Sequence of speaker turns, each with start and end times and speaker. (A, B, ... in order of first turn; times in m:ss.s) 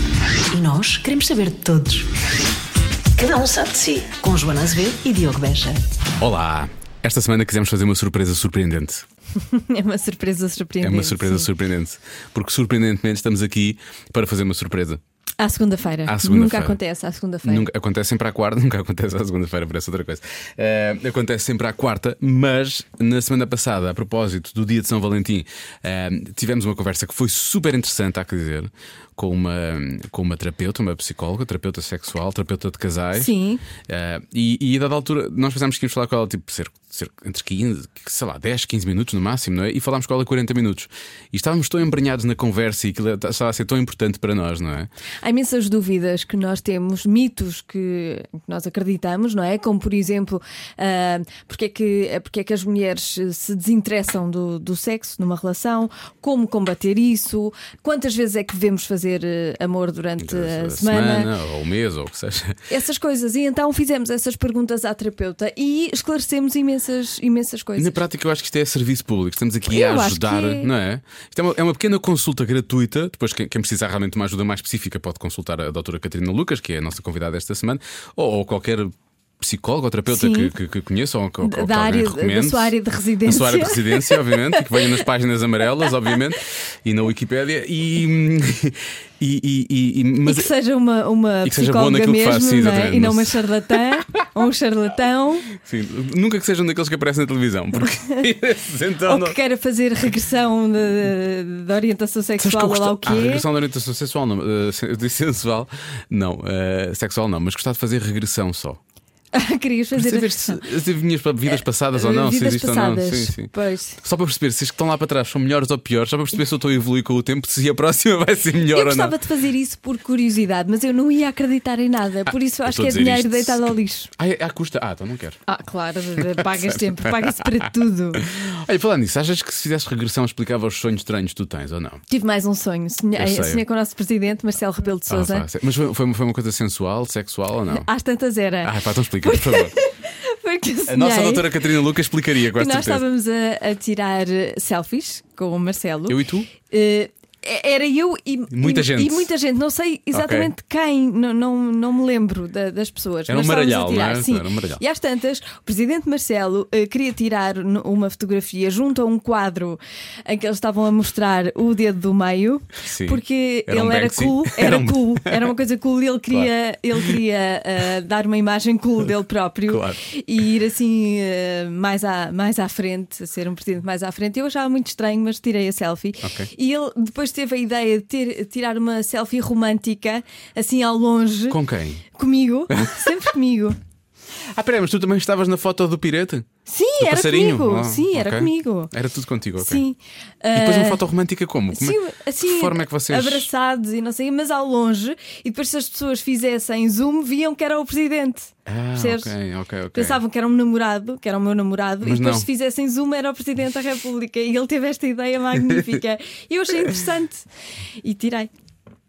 0:00.5-0:02.1 A
0:03.2-0:05.8 A
0:06.2-0:09.0 B
0:09.4-0:11.5 C
0:10.8-0:15.0 B
0:15.4-0:17.7 C
0:16.0-0:16.8 B
0:17.4-0:33.3 B
0:33.2-0:33.6 C
0:33.9-0:44.9 B
0:45.2-1:01.3 C
1:00.2-1:02.6 B
1:02.7-1:08.0 C
1:07.8-1:22.7 B
1:09.7-1:10.7 C
1:20.1-1:20.5 C
1:21.4-1:25.0 C
1:23.2-1:30.5 B
1:30.2-1:35.5 C
1:31.4-1:33.4 B
1:35.6-1:39.4 B
1:39.0-1:43.4 C
1:42.4-1:48.8 B
1:49.3-1:50.6 C
1:50.0-1:53.5 B
1:51.5-1:54.0 C
1:54.0-1:59.1 B
1:58.7-2:04.1 C
2:02.6-2:05.4 B
2:05.5-2:08.2 C
2:08.3-2:12.0 B
2:12.1-2:15.5 C
2:13.2-2:13.6 B
2:15.1-2:17.9 B
2:17.7-2:21.7 C
2:18.6-2:19.7 B
2:20.9-2:23.0 B
2:22.6-3:01.6 C
2:26.1-2:26.5 B
2:28.5-2:29.3 B
2:30.1-2:30.5 B
2:33.3-2:34.8 B
2:42.9-2:45.4 B
2:49.7-2:50.0 B
2:56.2-2:56.5 B
3:01.5-3:02.1 B
3:02.1-3:03.8 C
3:02.7-3:03.1 B
3:04.6-3:06.5 B
3:06.7-3:08.9 C
3:07.0-3:09.8 B
3:09.6-3:11.0 C
3:10.5-3:13.5 B
3:11.7-3:19.3 C
3:18.7-3:20.2 B
3:19.9-3:27.5 C
3:22.0-3:22.5 B
3:28.0-3:28.5 C